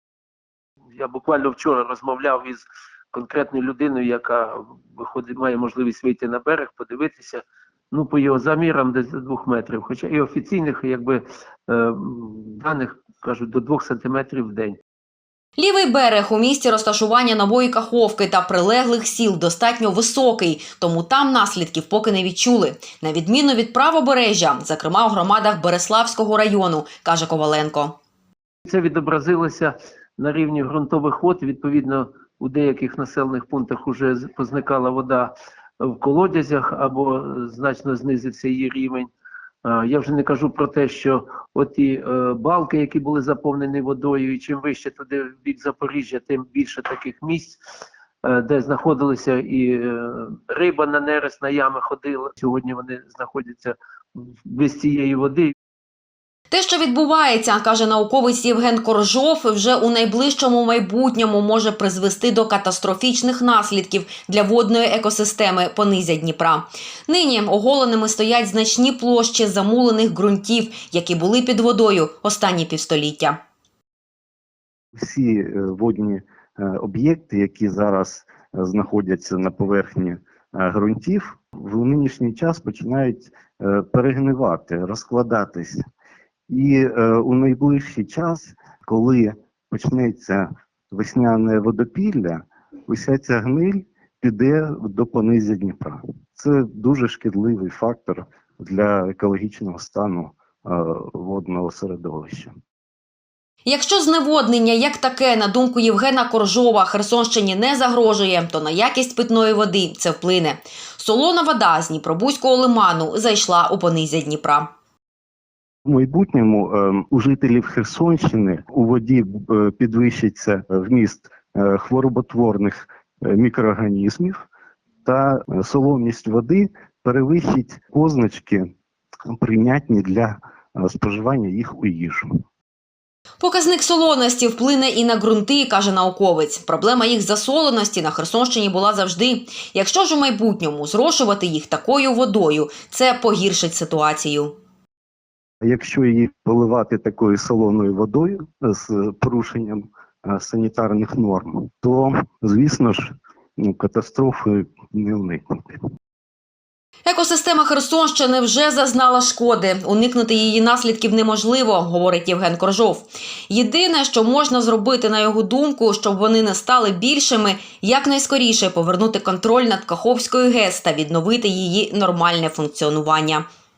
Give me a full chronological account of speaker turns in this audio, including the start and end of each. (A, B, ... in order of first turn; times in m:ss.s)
0:01.0-0:14.8 A
0:15.6-0:28.0 B
0:28.6-0:39.1 A
0:39.6-0:47.6 A
0:48.2-0:55.5 A
0:56.5-1:13.4 B
1:14.9-1:25.8 C
1:26.5-1:42.5 C
1:43.6-1:54.7 B
1:55.8-2:04.4 C
2:05.0-2:08.7 C
2:09.3-2:12.3 C
2:13.4-2:24.6 B
2:25.6-2:35.8 C
2:37.0-2:53.4 B